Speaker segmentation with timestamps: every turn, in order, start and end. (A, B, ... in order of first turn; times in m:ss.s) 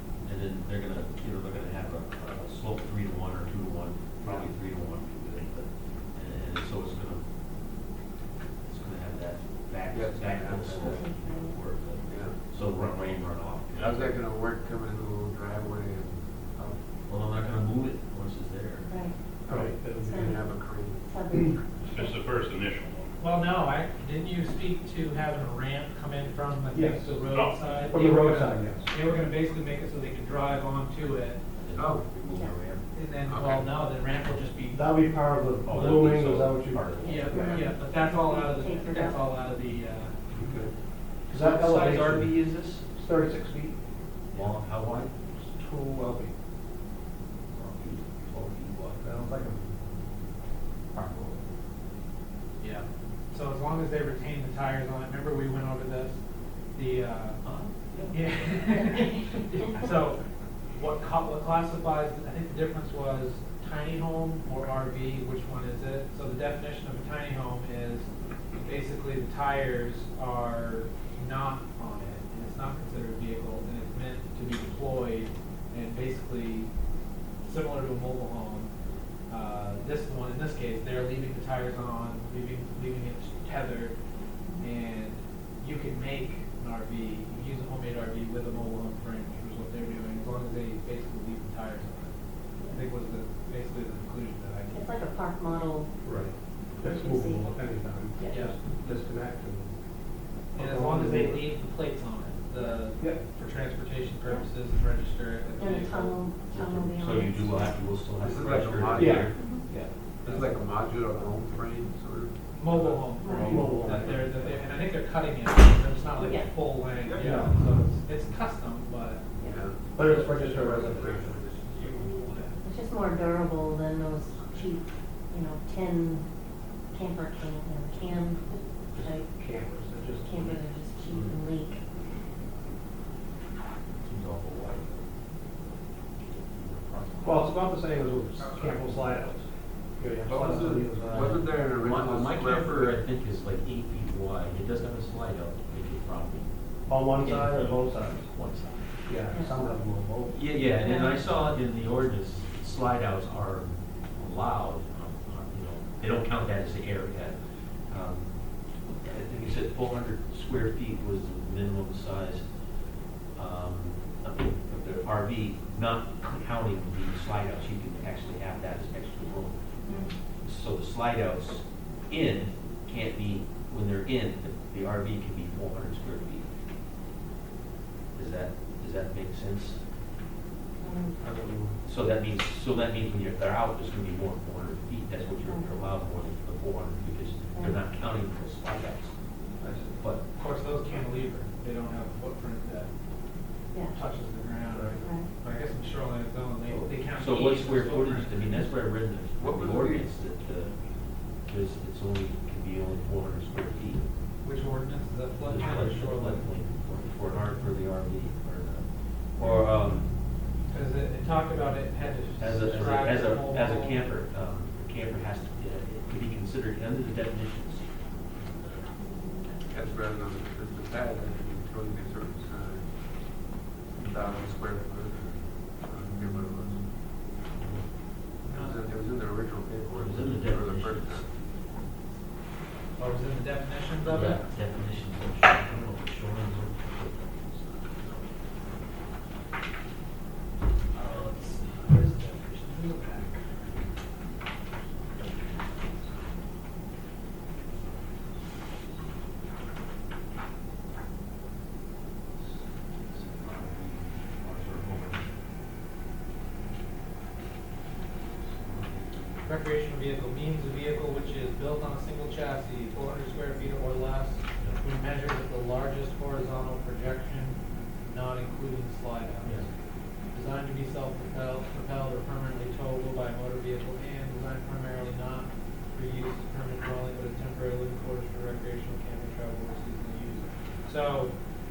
0:00.2-0:07.2 A
0:04.2-0:04.5 B
0:08.7-0:14.1 A
0:09.9-0:11.0 B
0:12.0-0:12.4 B
0:13.8-0:16.8 B
0:17.1-0:18.9 A
0:18.9-0:19.1 C
0:19.5-0:20.3 D
0:19.5-0:21.1 B
0:20.0-0:20.4 C
0:21.0-0:21.6 C
0:21.8-0:23.1 E
0:23.2-0:31.4 F
0:26.7-0:27.2 D
0:27.2-0:27.9 E
0:27.9-0:28.9 D
0:31.6-0:32.8 A
0:31.8-0:32.1 B
0:32.9-0:34.8 F
0:33.3-0:33.8 B
0:34.7-0:37.6 D
0:35.6-0:37.5 A
0:37.0-0:40.2 F
0:37.3-0:39.2 C
0:40.3-0:40.7 D
0:41.3-0:43.8 D
0:41.3-0:42.8 A
0:44.3-0:45.4 A
0:45.6-0:46.3 D
0:47.5-0:49.0 A
0:49.0-0:49.7 D
0:50.9-0:51.4 D
0:52.6-0:56.2 F
0:56.8-0:57.4 F
0:57.4-0:58.6 A
0:58.1-1:00.2 F
1:00.7-1:16.7 F
1:17.4-1:18.7 F
1:19.3-1:24.0 F
1:24.6-1:32.1 F
1:32.7-1:35.0 F
1:34.7-1:35.9 C
1:36.0-1:39.7 D
1:36.8-1:37.5 C
1:38.3-1:38.6 F
1:40.5-1:41.4 D
1:40.6-1:46.2 F
1:45.6-1:47.6 C
1:46.5-1:49.9 A
1:48.2-1:49.3 B
1:49.0-1:49.3 D
1:49.3-1:49.6 C
1:50.2-1:54.6 B
1:50.2-1:50.6 F
1:52.5-1:59.2 F
1:53.2-1:53.5 C
1:53.3-1:53.6 A
1:53.4-1:54.4 D
1:56.2-1:56.5 C
1:57.2-1:57.5 D
1:59.5-2:02.4 B
2:00.0-2:01.4 D
2:00.0-2:02.6 F
2:02.6-2:06.3 C
2:06.9-2:09.2 C
2:08.9-2:10.6 D
2:10.2-2:11.8 C
2:11.0-2:11.4 A
2:14.0-2:15.1 A
2:16.2-2:17.5 A
2:17.2-2:21.5 D
2:18.5-2:18.8 A
2:20.3-2:23.0 B
2:21.8-2:26.5 A
2:26.9-2:28.3 D
2:27.2-2:28.9 A
2:29.1-2:30.4 D
2:30.3-2:42.5 A
2:30.8-2:31.2 C
2:43.4-2:56.5 A
2:49.9-2:50.1 C
2:58.1-2:59.8 A
3:00.8-3:01.2 C
3:01.2-3:01.7 D
3:01.8-3:09.1 A
3:09.6-3:10.0 D
3:10.0-3:10.2 A
3:10.4-3:12.9 F
3:13.9-3:18.8 F
3:14.7-3:15.1 D
3:15.0-3:15.3 C
3:16.7-3:20.8 A
3:19.4-3:20.1 B
3:21.4-3:24.1 A
3:24.4-3:26.6 F
3:25.4-3:30.1 A
3:30.7-3:34.1 F
3:32.0-3:38.8 A
3:39.0-3:39.6 C
3:39.7-3:42.9 B
3:44.0-3:46.8 B
3:46.0-3:46.9 A
3:47.4-3:47.8 A
3:48.4-3:48.8 F
3:48.5-3:51.3 B
3:49.9-3:51.3 A
3:53.0-3:54.5 F
3:54.0-3:58.2 A
4:00.9-4:03.7 F
4:05.1-4:06.0 F
4:12.4-4:15.3 A
4:18.4-4:19.4 A
4:19.4-4:29.7 F
4:30.3-4:41.4 F